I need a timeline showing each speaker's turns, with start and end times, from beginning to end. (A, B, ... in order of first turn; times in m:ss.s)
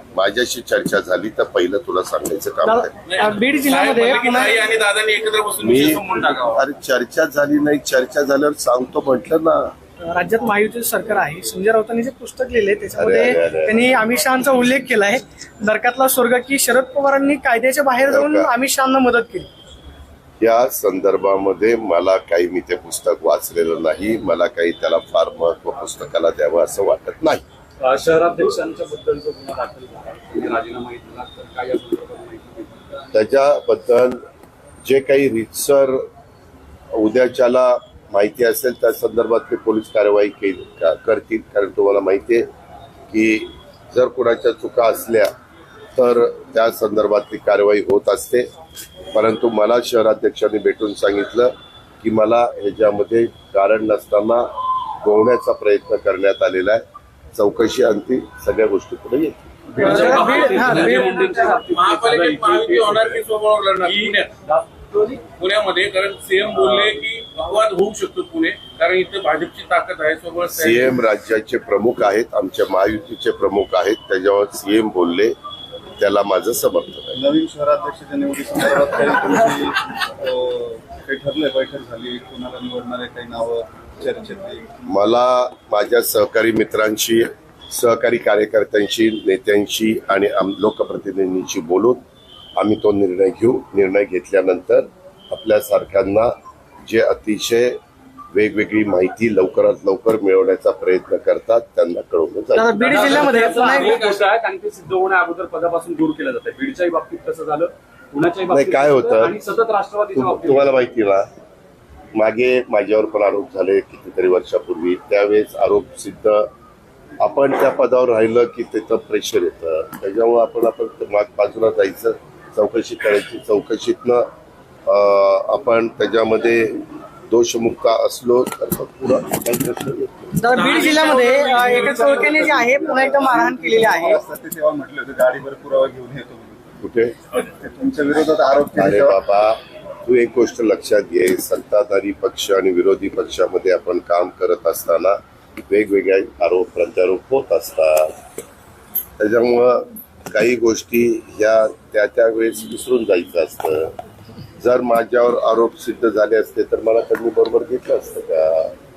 0:00.2-0:03.0 A
0:02.6-0:04.7 B
0:03.1-0:06.6 C
0:05.6-0:09.7 A
0:10.0-0:19.5 B
0:13.0-0:14.0 A
0:18.1-0:18.5 A
0:20.4-0:27.4 A
0:27.8-0:32.7 D
0:33.1-0:34.2 A
0:34.8-0:36.0 A
0:36.9-0:42.5 A
0:43.1-0:45.3 A
0:46.0-0:48.5 A
0:49.1-0:54.5 A
0:55.0-0:56.8 A
0:57.4-0:59.4 A
0:59.8-1:01.6 B
0:59.8-1:03.2 D
0:59.8-1:04.3 C
1:03.8-1:05.2 D
1:05.4-1:11.0 C
1:06.6-1:07.0 D
1:10.5-1:15.3 A
1:16.0-1:17.2 A
1:17.1-1:24.8 E
1:24.9-1:32.0 A
1:32.6-1:36.3 A
1:36.8-1:37.8 A
1:38.3-1:43.4 A
1:42.6-1:44.1 B
1:42.8-1:50.8 D
1:43.8-1:44.2 C
1:48.5-1:49.4 A
1:50.1-1:51.3 A
1:52.2-1:56.5 A
1:57.2-2:04.3 A
2:04.9-2:10.4 A
2:10.4-2:14.2 B
2:10.5-2:12.5 C
2:11.6-2:16.6 E
2:16.8-2:17.2 A
2:17.4-2:19.2 E
2:18.8-2:28.2 A
2:29.2-2:34.0 A
2:34.6-2:38.7 A